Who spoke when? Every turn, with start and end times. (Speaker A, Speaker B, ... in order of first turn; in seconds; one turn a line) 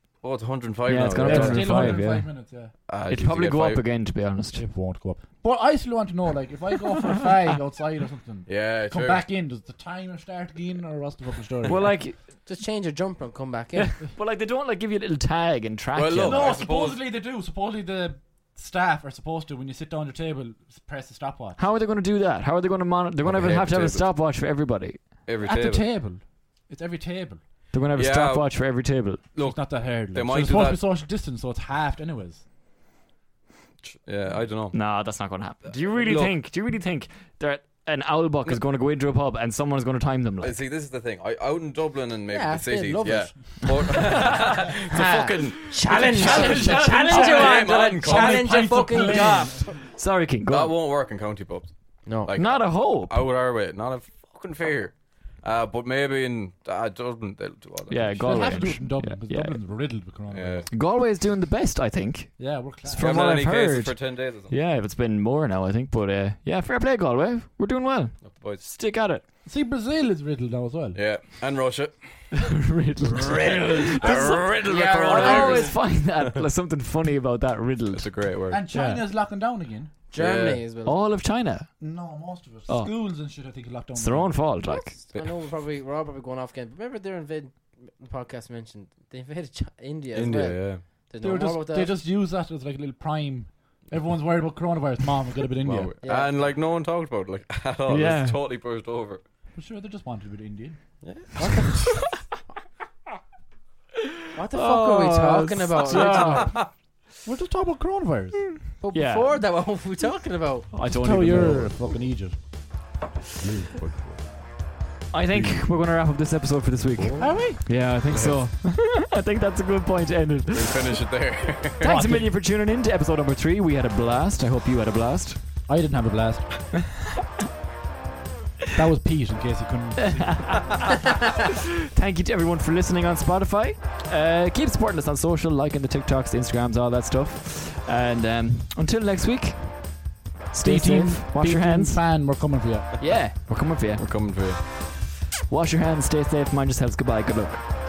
Speaker A: 0.2-2.0
Speaker B: 0.9-2.4
Speaker C: 1.1-2.8
Speaker A: 2.9-3.9
Speaker B: 3.1-4.7
Speaker C: 4.5-11.9
Speaker A: 8.5-9.3
Speaker B: 11.7-12.2
Speaker D: 12.4-13.9
Speaker B: 13.8-16.7
Speaker A: 15.9-17.0
Speaker C: 16.2-21.6
Speaker B: 21.6-25.2
Speaker A: 23.2-24.1
Speaker A: 25.2-25.9
Speaker C: 25.4-27.4
Speaker B: 27.7-29.4
Speaker A: 27.9-28.8
Speaker A: 29.3-30.8
Speaker C: 29.4-32.4
Speaker A: 33.8-34.8
Speaker B: 34.7-40.6
Speaker A: 35.7-36.4
Speaker A: 40.4-49.1
Speaker D: 42.3-49.8
Speaker C: 45.9-49.9
Speaker B: 46.3-46.8
Speaker B: 49.9-50.8
Speaker A: 50.5-58.8
Speaker D: 52.0-52.3
Speaker B: 52.3-53.2
Speaker B: 57.9-59.6
Speaker C: 58.2-60.7
Speaker A: 60.3-60.7
Speaker B: 60.7-69.3
Speaker C: 62.4-63.3
Speaker A: 63.0-64.6
Speaker A: 68.2-68.7
Speaker C: 69.4-71.0
Speaker A: 70.9-72.0
Speaker B: 72.3-74.5
Speaker C: 73.3-73.6
Speaker A: 73.4-76.4
Speaker D: 73.5-75.8
Speaker B: 75.1-78.2
Speaker A: 77.9-78.7
Speaker C: 78.5-79.9
Speaker B: 78.7-79.1
Speaker D: 80.1-81.0
Speaker A: 80.2-80.6
Speaker B: 80.8-81.7
Speaker C: 81.8-84.4
Speaker B: 82.7-82.9
Speaker B: 84.0-84.9
Speaker D: 84.6-91.9
Speaker A: 90.1-90.8
Speaker C: 91.2-95.9
Speaker A: 95.6-99.2
Speaker D: 96.0-96.3
Speaker B: 97.9-98.4
Speaker C: 99.5-100.8
Speaker A: 101.0-101.4
Speaker D: 101.3-101.9
Speaker D: 104.3-106.5
Speaker B: 104.5-106.6
Speaker C: 107.2-108.4
Speaker B: 108.5-109.5
Speaker D: 108.8-110.7
Speaker B: 110.7-111.7
Speaker C: 110.9-112.4
Speaker E: 111.3-111.9
Speaker E: 113.4-114.3
Speaker B: 115.1-121.0
Speaker E: 115.2-115.9
Speaker E: 117.0-117.5
Speaker C: 117.2-117.7
Speaker A: 118.1-118.5
Speaker A: 120.5-122.0
Speaker B: 121.8-125.4
Speaker C: 121.8-122.3
Speaker C: 125.7-126.7
Speaker B: 126.8-127.0
Speaker C: 128.8-130.8
Speaker B: 130.0-130.8
Speaker B: 131.9-142.0
Speaker C: 140.6-143.0
Speaker B: 143.0-144.1
Speaker A: 144.0-144.6
Speaker B: 145.4-147.6